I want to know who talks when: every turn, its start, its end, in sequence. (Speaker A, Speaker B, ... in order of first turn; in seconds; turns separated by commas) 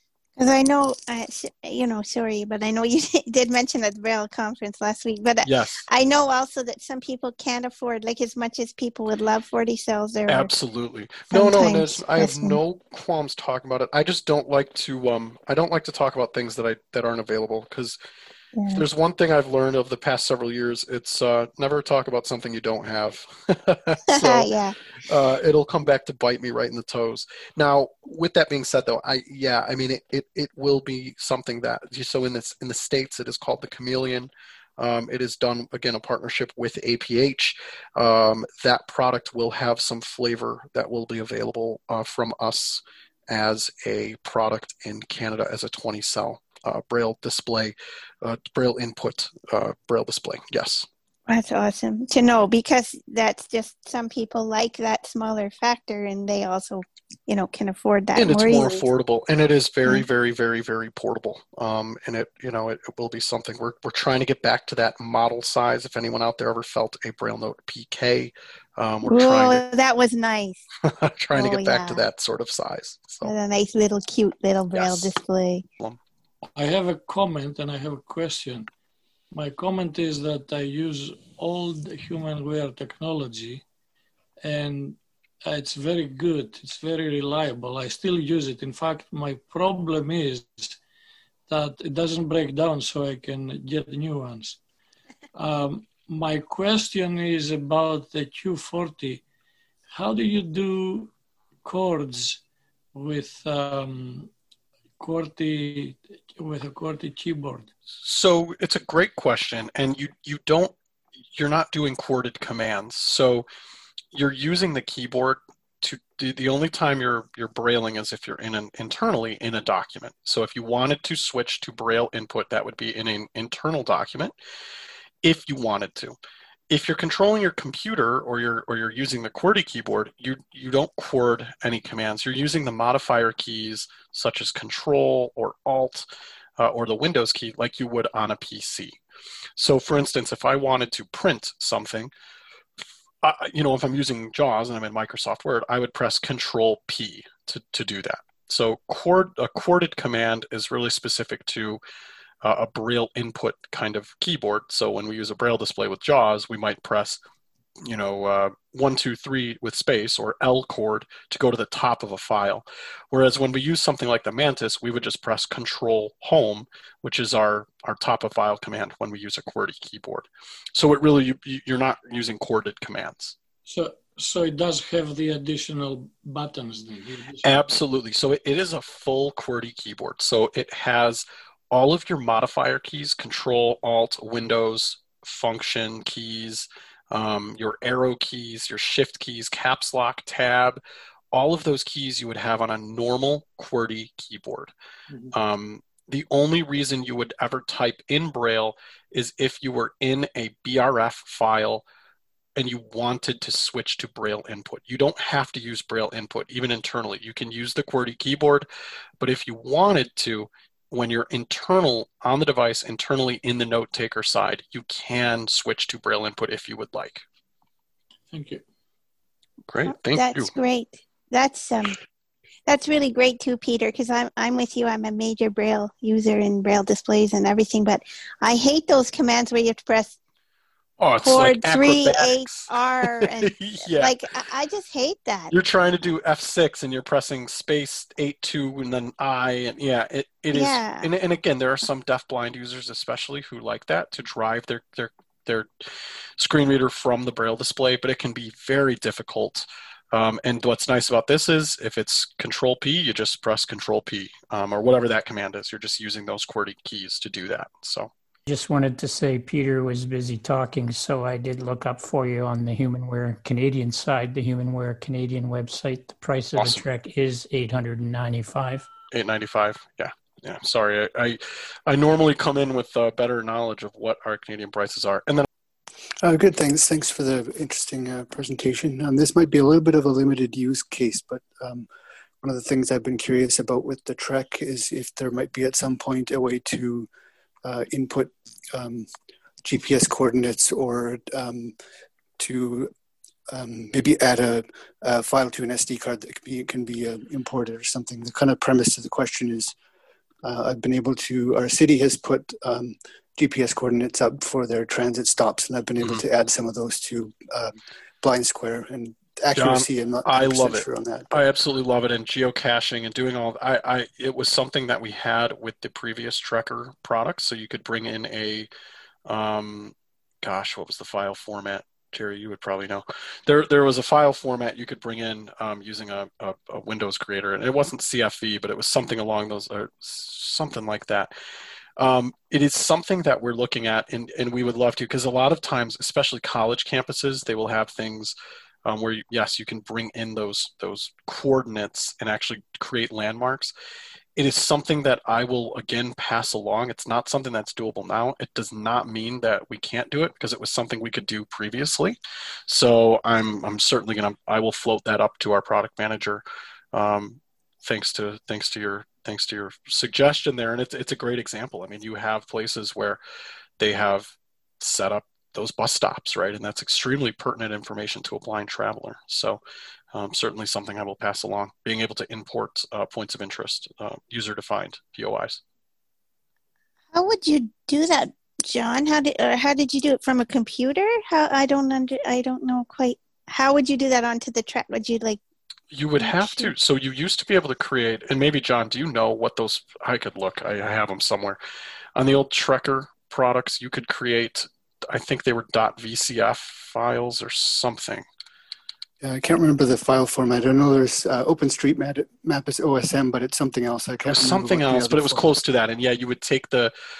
Speaker A: 0.4-10.5, Speaker B: 5.4-5.8, Speaker B: 10.3-18.0, Speaker A: 11.3-12.6, Speaker A: 18.5-18.8, Speaker B: 18.7-24.5, Speaker A: 24.1-24.8, Speaker B: 25.0-50.9, Speaker A: 51.3-58.9, Speaker B: 58.1-69.6, Speaker A: 69.0-70.6, Speaker B: 70.8-73.3, Speaker A: 71.3-72.0, Speaker A: 73.2-75.6, Speaker B: 74.7-75.1, Speaker C: 76.5-78.7, Speaker C: 79.3-83.6, Speaker C: 84.4-90.8, Speaker C: 91.5-94.6, Speaker C: 95.3-99.2, Speaker C: 99.9-101.1, Speaker C: 101.6-102.4, Speaker C: 102.9-104.3, Speaker C: 105.0-107.7, Speaker B: 108.0-110.7, Speaker B: 111.3-113.5, Speaker B: 114.1-124.3, Speaker B: 125.2-126.2, Speaker B: 126.7-136.1, Speaker B: 136.6-139.0, Speaker B: 139.6-142.1, Speaker B: 143.2-151.8, Speaker B: 152.4-157.2, Speaker B: 157.8-173.3, Speaker C: 173.7-177.5, Speaker B: 177.4-190.8, Speaker B: 191.3-194.7, Speaker B: 195.3-201.8, Speaker B: 202.6-208.7, Speaker B: 209.2-217.2, Speaker C: 218.3-218.6, Speaker B: 219.7-220.5, Speaker A: 219.9-221.9, Speaker A: 222.7-230.2, Speaker B: 231.0-234.2, Speaker A: 231.2-235.5, Speaker B: 235.5-258.1, Speaker A: 240.5-241.1, Speaker D: 258.5-268.9, Speaker B: 266.5-266.8, Speaker B: 269.1-275.5, Speaker E: 276.2-281.9, Speaker E: 282.4-287.1, Speaker E: 287.6-289.1, Speaker E: 289.6-291.7, Speaker E: 292.4-292.9, Speaker E: 293.5-299.7, Speaker E: 300.4-311.3, Speaker B: 309.5-318.7, Speaker B: 319.2-331.3, Speaker B: 332.0-343.7, Speaker B: 344.4-363.2, Speaker B: 363.8-369.6, Speaker B: 370.1-375.6, Speaker A: 377.1-385.4, Speaker B: 385.9-391.6, Speaker A: 386.2-386.7, Speaker B: 392.1-398.2, Speaker E: 399.2-405.5, Speaker B: 404.2-406.9